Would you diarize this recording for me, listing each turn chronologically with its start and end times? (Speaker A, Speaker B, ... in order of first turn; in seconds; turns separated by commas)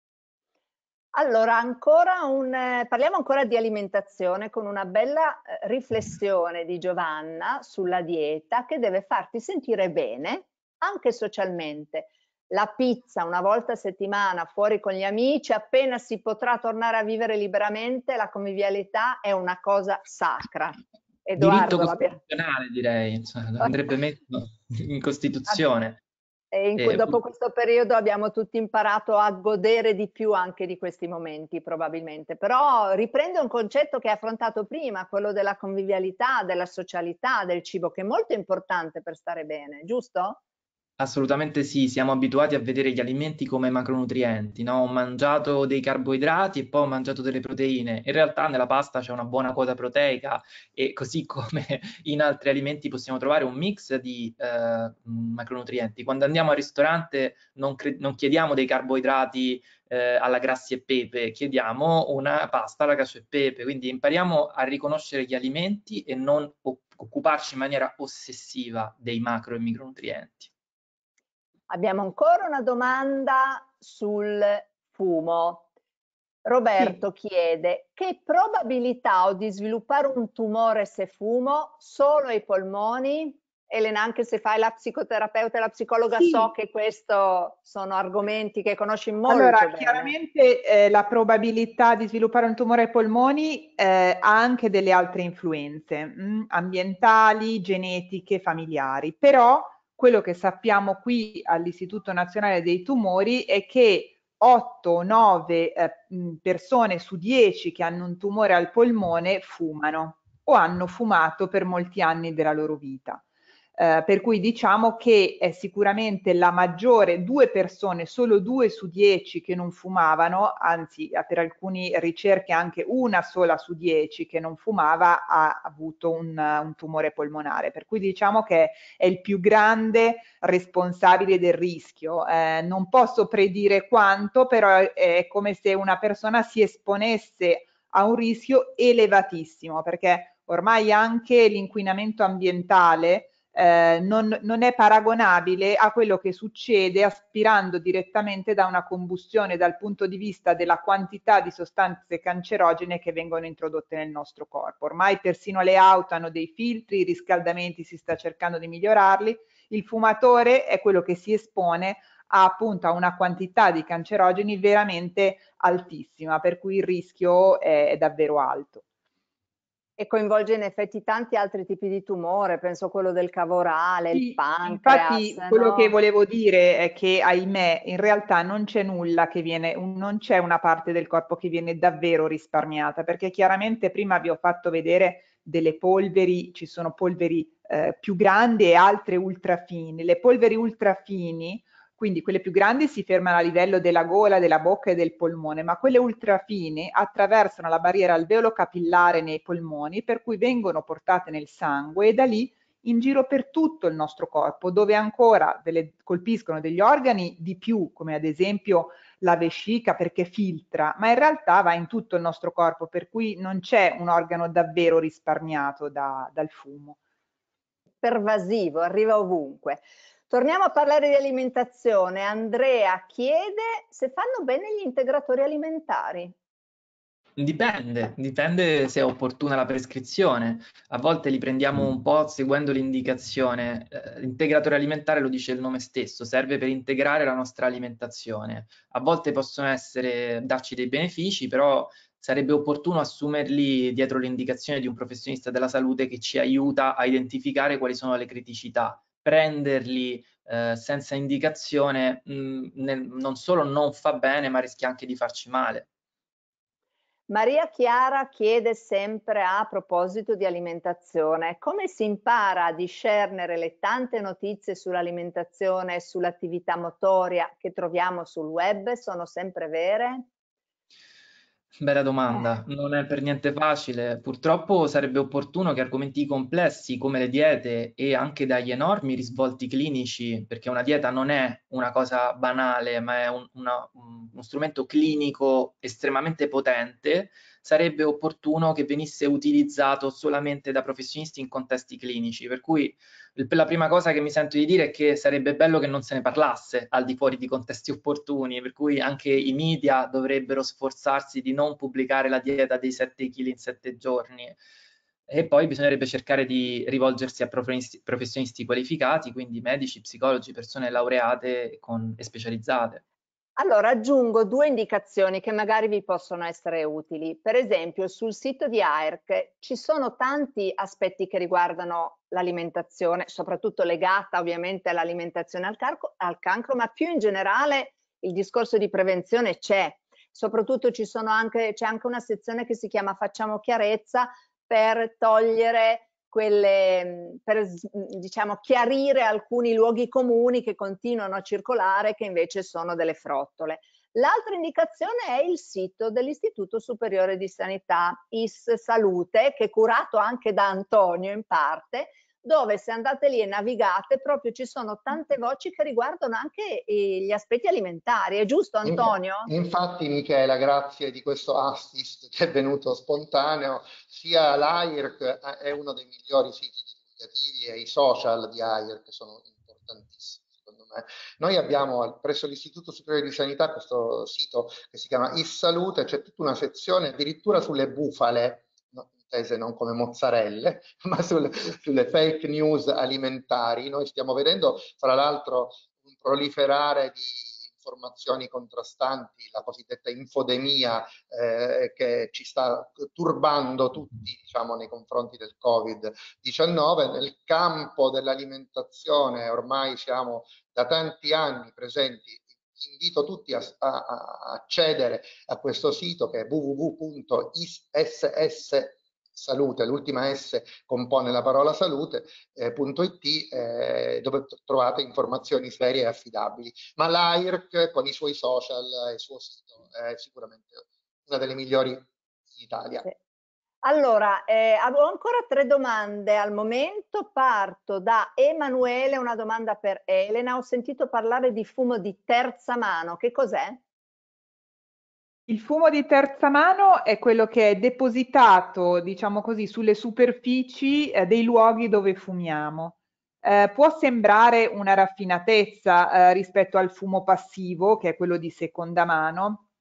Speaker A: 1.1-22.2, Speaker B: 21.4-26.0, Speaker A: 26.5-40.4, Speaker B: 26.8-27.2, Speaker B: 41.0-70.5, Speaker A: 71.7-75.7, Speaker A: 76.5-90.1, Speaker C: 86.2-86.5, Speaker C: 89.3-113.2, Speaker C: 113.8-168.8, Speaker A: 170.0-175.9, Speaker C: 174.1-217.0, Speaker A: 218.0-226.3, Speaker B: 227.4-255.9, Speaker A: 257.3-270.3, Speaker B: 271.8-304.6, Speaker B: 305.3-313.0, Speaker A: 313.6-359.5, Speaker D: 358.9-423.1, Speaker A: 423.8-433.8, Speaker C: 435.5-449.6